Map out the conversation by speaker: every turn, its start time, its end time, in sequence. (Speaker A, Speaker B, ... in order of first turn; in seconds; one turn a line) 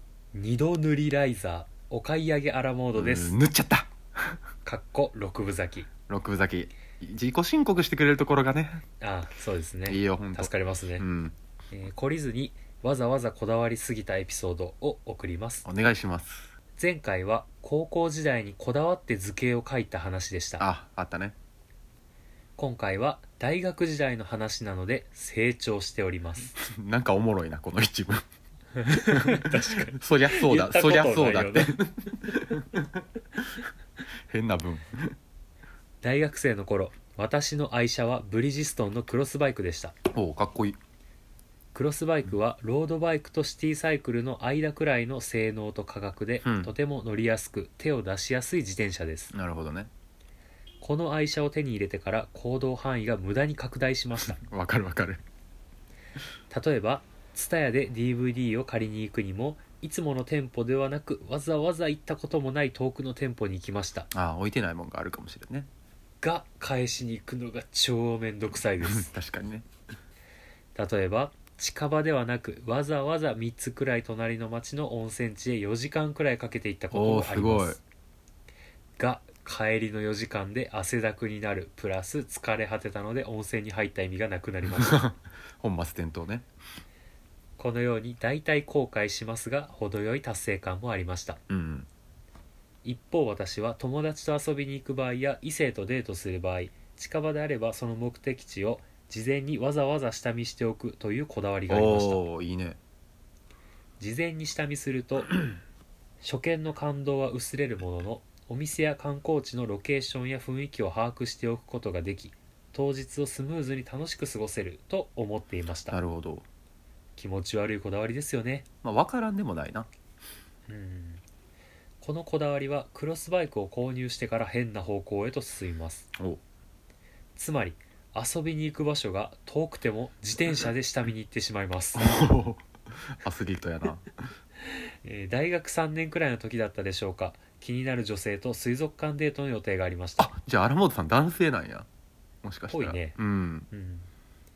Speaker A: 0.3-3.4
Speaker B: 3.0-4.4
Speaker A: 4.7-5.9
Speaker B: 6.1-8.8
Speaker A: 9.0-11.1
Speaker B: 9.9-11.3
Speaker A: 11.7-15.7
Speaker B: 15.7-16.5
Speaker A: 16.8-20.7
Speaker B: 20.6-21.4
Speaker A: 22.6-26.6
Speaker B: 26.6-28.2
Speaker A: 28.8-31.7
Speaker B: 29.0-33.0
Speaker B: 34.3-35.1
Speaker A: 36.0-39.9
Speaker B: 40.1-40.8
Speaker A: 41.7-49.3
Speaker B: 46.4-46.7
Speaker B: 49.3-49.9
Speaker A: 50.8-54.4
Speaker B: 54.3-55.2
Speaker A: 56.5-64.1
Speaker B: 64.1-65.7
Speaker A: 66.2-69.1
Speaker B: 68.8-69.7
Speaker A: 70.8-77.8
Speaker B: 76.9-77.8
Speaker A: 79.0-85.0
Speaker B: 84.8-86.5
Speaker A: 87.6-91.4
Speaker B: 91.5-91.9
Speaker A: 92.8-102.2
Speaker B: 101.7-102.8
Speaker A: 104.0-105.4
Speaker A: 106.2-116.0
Speaker B: 115.9-116.5
Speaker A: 117.2-118.7
Speaker B: 118.8-119.9
Speaker A: 120.7-121.2
Speaker A: 122.0-126.1
Speaker A: 127.4-132.1
Speaker B: 131.9-132.7
Speaker B: 133.2-134.1
Speaker A: 135.0-140.3
Speaker B: 140.2-141.9
Speaker B: 142.4-143.7
Speaker A: 142.7-143.2
Speaker A: 143.7-144.1